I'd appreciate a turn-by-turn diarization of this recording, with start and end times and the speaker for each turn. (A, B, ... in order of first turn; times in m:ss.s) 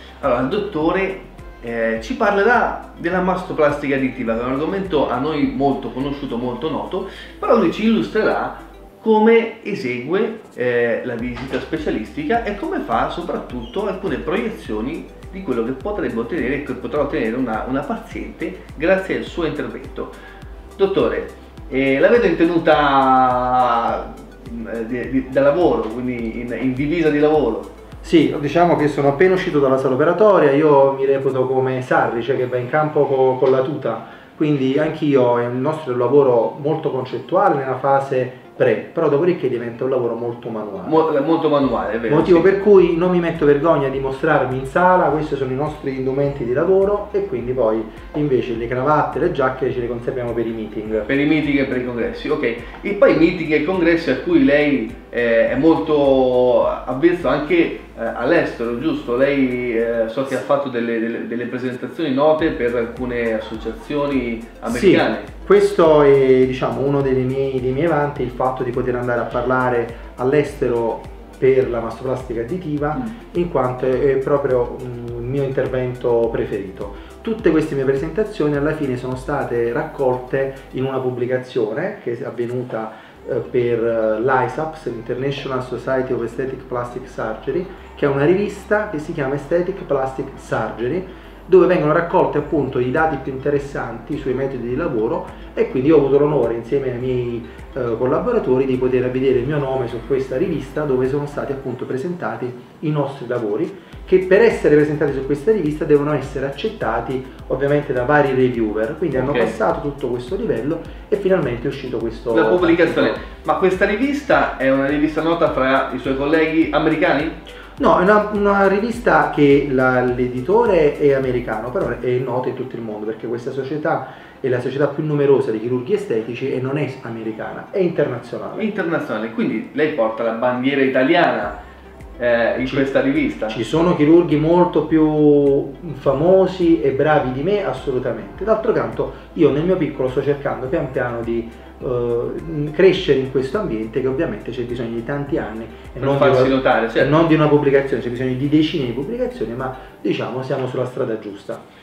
0:00.2-0:20.1 A
0:20.8-0:27.7 A
0:28.0-0:41.1 B
0:40.8-0:42.5 A
0:42.1-0:51.1 B
0:51.1-1:05.3 A
1:04.7-1:53.2 B
1:49.2-1:49.5 A
1:52.3-1:57.4 A
1:57.8-2:08.7 B
2:08.6-2:11.6 A
2:12.2-2:13.6 A
2:13.5-2:31.6 B
2:26.0-2:27.1 A